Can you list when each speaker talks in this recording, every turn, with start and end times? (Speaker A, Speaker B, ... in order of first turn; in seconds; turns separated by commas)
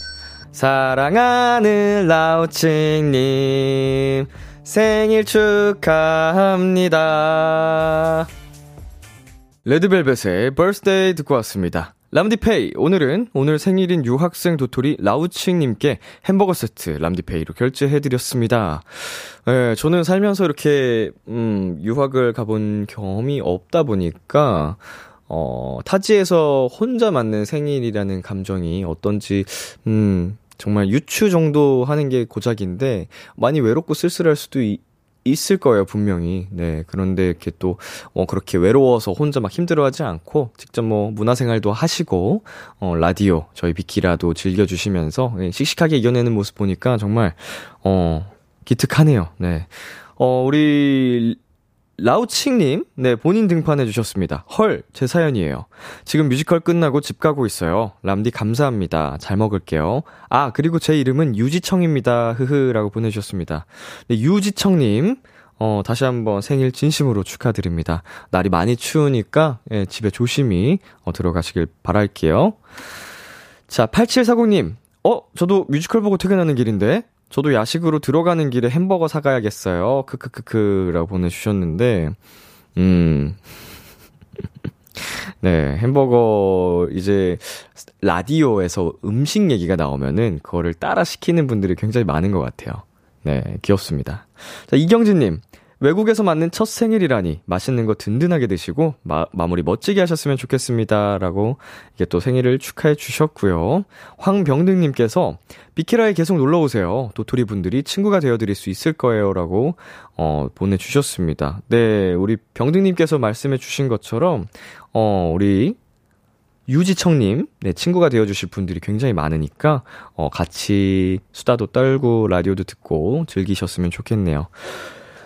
Speaker A: 0.5-8.3, Speaker A: 9.6-51.4, Speaker A: 52.0-72.6, Speaker A: 73.7-82.2, Speaker A: 82.8-83.4, Speaker A: 85.0-115.8, Speaker A: 116.7-124.5